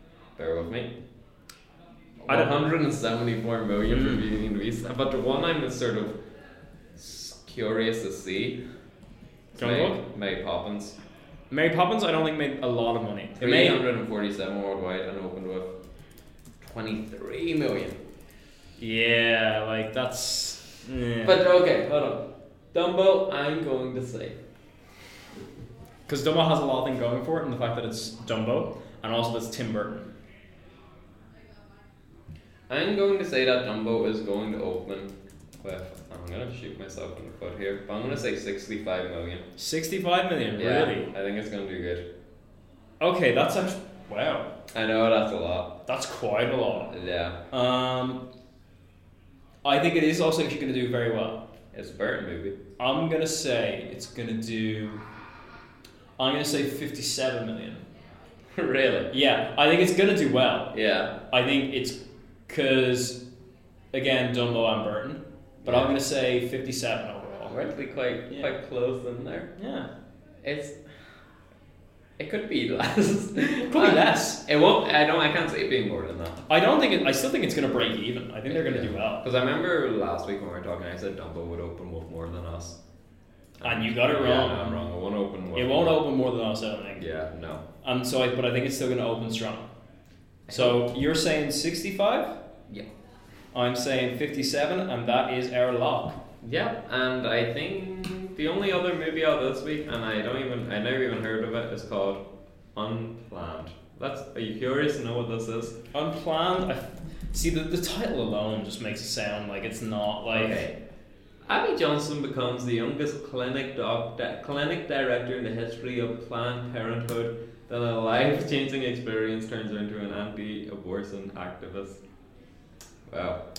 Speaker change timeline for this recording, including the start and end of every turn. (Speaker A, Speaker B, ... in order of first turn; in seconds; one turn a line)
Speaker A: 0.3-0.9
Speaker A: 2.2-6.2
Speaker B: 2.3-2.6
Speaker B: 3.9-4.2
Speaker A: 7.0-8.6
Speaker B: 9.6-10.0
Speaker A: 9.6-11.0
Speaker B: 11.5-13.8
Speaker A: 13.4-15.7
Speaker A: 16.6-18.0
Speaker B: 18.8-21.4
Speaker A: 21.2-24.4
Speaker B: 26.1-30.1
Speaker A: 32.7-39.4
Speaker B: 39.6-41.1
Speaker A: 40.5-42.1
Speaker B: 43.0-44.5
Speaker A: 44.7-45.8
Speaker B: 45.9-46.9
Speaker A: 46.9-47.4
Speaker B: 47.5-48.2
Speaker B: 49.6-51.5
Speaker A: 51.7-52.6
Speaker B: 52.8-55.0
Speaker B: 56.2-57.8
Speaker A: 58.5-59.1
Speaker B: 59.1-60.8
Speaker A: 60.7-61.1
Speaker B: 61.3-63.2
Speaker B: 63.9-67.6
Speaker A: 65.6-65.9
Speaker A: 67.5-69.5
Speaker B: 69.6-69.9
Speaker A: 70.4-70.8
Speaker A: 72.2-76.4
Speaker B: 73.6-74.4
Speaker B: 76.5-79.2
Speaker A: 78.5-82.8
Speaker A: 83.6-86.0
Speaker B: 83.6-84.8
Speaker B: 85.5-87.0
Speaker A: 87.0-87.6
Speaker B: 87.8-89.7
Speaker A: 90.5-90.8
Speaker B: 90.5-92.3
Speaker B: 93.5-96.2
Speaker A: 96.4-105.8
Speaker B: 105.9-110.6
Speaker A: 110.3-110.7
Speaker A: 111.5-122.0
Speaker A: 123.1-123.4